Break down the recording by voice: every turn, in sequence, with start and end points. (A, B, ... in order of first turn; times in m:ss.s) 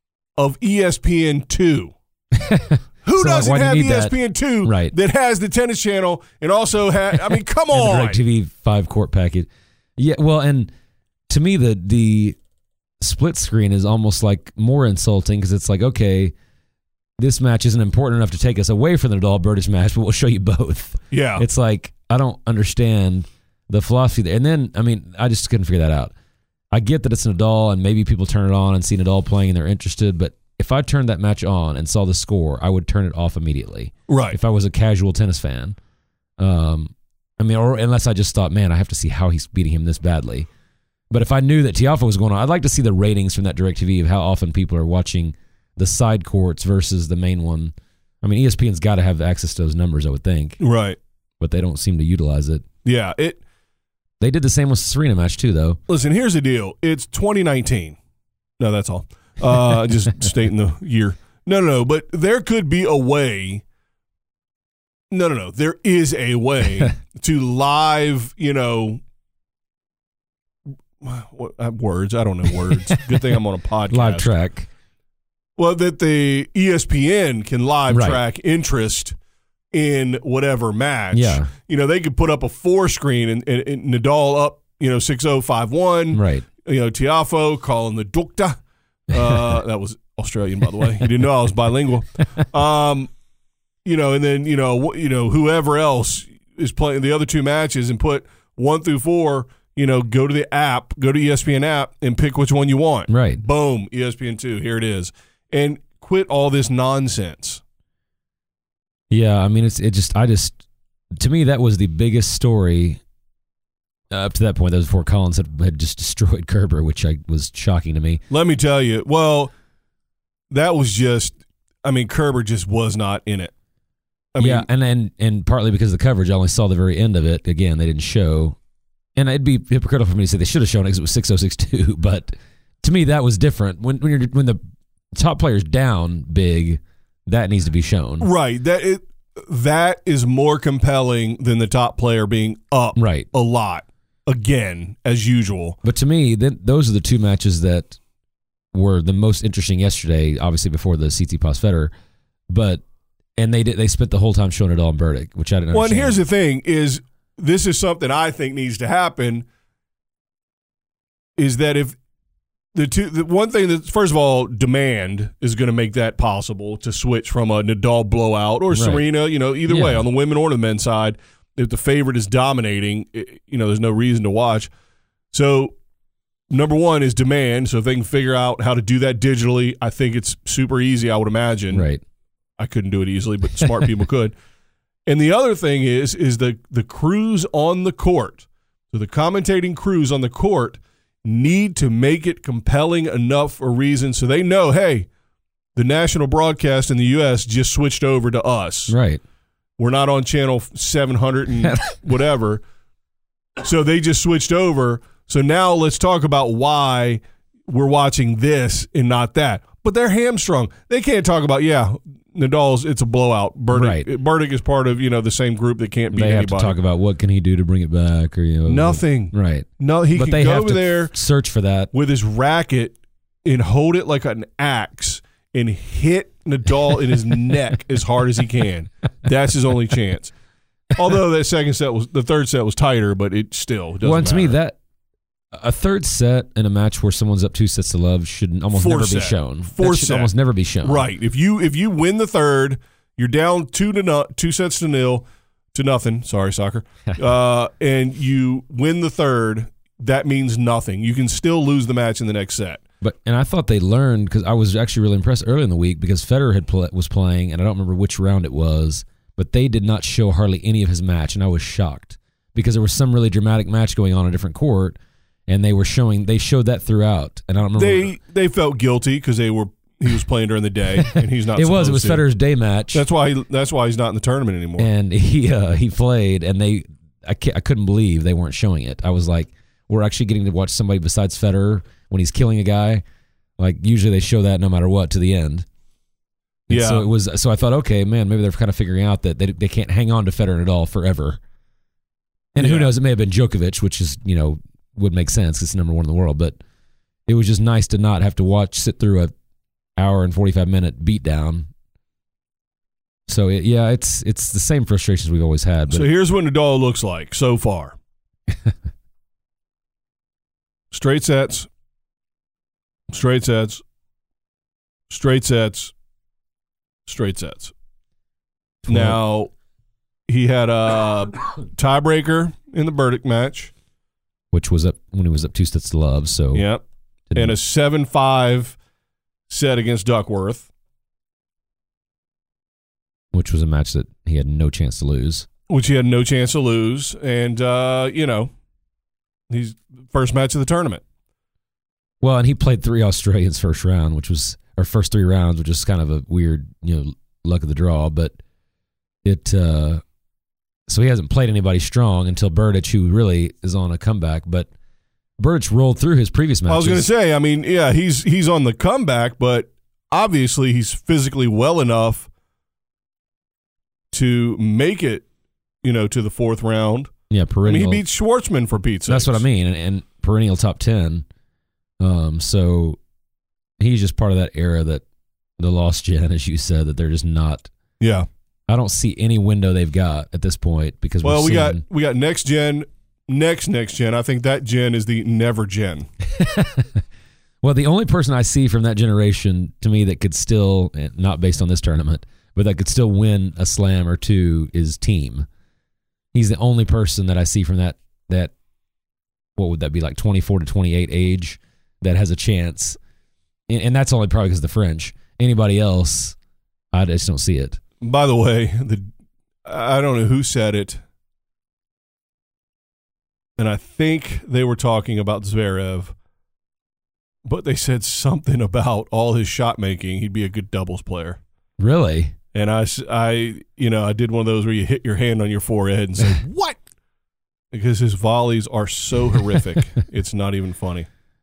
0:00.4-0:01.9 A
0:02.4-0:05.0 B
0:03.0-0:08.2 A
0:07.7-0:10.7 B
0:11.3-0:12.4 B
0:13.0-0:16.3 B
0:17.2-0:26.1 B
0:21.1-0:21.5 A
0:26.7-0:35.8 B
0:34.1-0:34.4 A
0:36.4-0:40.5 B
0:41.1-0:50.6 B
0:50.6-0:51.0 A
0:51.4-0:52.6 B
0:52.8-0:53.4 A
0:54.2-0:55.8 B
0:55.9-0:58.0 A
0:58.6-1:03.6 A
1:05.1-1:09.0 A
1:11.0-1:14.3 A
1:12.7-1:13.0 B
1:13.9-1:14.7 B
1:15.6-1:19.2 A
1:17.9-1:18.2 B
1:19.7-1:33.1 A
1:21.1-1:21.5 B
1:26.1-1:26.4 B
1:29.2-1:29.5 B
1:33.8-1:47.6 A
1:43.1-1:43.4 B
1:49.1-1:50.6 B
1:51.2-1:53.0 B
1:54.1-1:58.2 B
1:58.3-1:59.5 A
2:00.5-2:03.5 A
2:04.3-2:04.7 A
2:04.4-2:08.6 B
2:09.2-2:14.6 B
2:15.1-2:18.3 B
2:18.2-2:25.8 A
2:23.0-2:23.3 B
2:25.8-2:28.0 B
2:28.7-2:31.9 B
2:32.5-2:32.8 B
2:33.4-2:36.2 B
2:35.7-2:39.5 A
2:41.4-2:42.0 A
2:42.7-2:54.7 A
2:48.7-2:49.1 B
2:49.7-2:50.1 B
2:55.3-2:55.8 A
2:56.5-3:01.9 A
3:01.7-3:02.0 B
3:02.6-3:04.3 A
3:05.1-3:15.1 A
3:15.8-3:19.0 A
3:18.9-3:19.2 B
3:19.8-3:22.6 A
3:21.6-3:21.9 B
3:23.6-3:36.8 A
3:33.7-3:34.1 B
3:36.1-3:41.9 B
3:38.7-3:41.1 A
3:41.9-3:50.3 A
3:50.9-3:54.6 A
3:54.0-3:54.8 B
3:55.5-4:01.1 B
3:58.7-4:00.3 A
4:00.8-4:12.8 A
4:13.0-4:28.1 B
4:27.8-4:32.2 A
4:31.0-4:33.0 B
4:32.9-4:34.9 A
4:34.8-4:43.0 B
4:43.6-4:45.7 B
4:46.7-4:51.4 B
4:46.7-4:47.1 A
4:52.5-4:56.6 B
4:52.6-4:52.9 A
4:57.3-4:59.3 B
5:00.0-5:01.7 B
5:03.3-5:06.1 B
5:05.9-5:08.0 A
5:10.9-5:11.7 A
5:13.1-5:13.8 A
5:15.1-5:15.9 A
5:17.1-5:17.7 A
5:18.8-5:19.2 B
5:18.9-5:19.5 A
5:20.3-5:23.7 A
5:24.5-5:26.7 B
5:26.5-5:26.8 A
5:27.3-5:27.6 B
5:27.3-5:28.8 A
5:29.5-5:30.7 A
5:33.3-5:35.5 B
5:35.7-5:38.5 A
5:39.5-5:41.0 A
5:42.2-5:48.4 B
5:49.2-5:50.0 B
5:50.9-5:54.7 B
5:55.4-5:57.1 B
5:56.7-6:02.3 A
6:04.1-6:05.3 A
6:05.8-6:07.1 A
6:07.3-6:08.0 B
6:07.7-6:09.4 A
6:09.1-6:11.3 B
6:12.0-6:13.0 B
6:13.8-6:15.0 B
6:15.6-6:17.7 B
6:18.0-6:18.3 A
6:18.7-6:21.8 B
6:21.2-6:26.1 A
6:26.3-6:27.0 B
6:27.6-6:35.5 B
6:36.3-6:38.5 B
6:39.6-6:43.0 B
6:43.7-6:46.4 B
6:46.9-6:47.8 B
6:48.0-6:49.1 A
6:49.7-6:51.0 A
6:53.6-6:56.1 A
6:57.4-7:01.4 A
7:01.8-7:02.3 B
7:02.5-7:06.8 A
7:07.7-7:11.1 A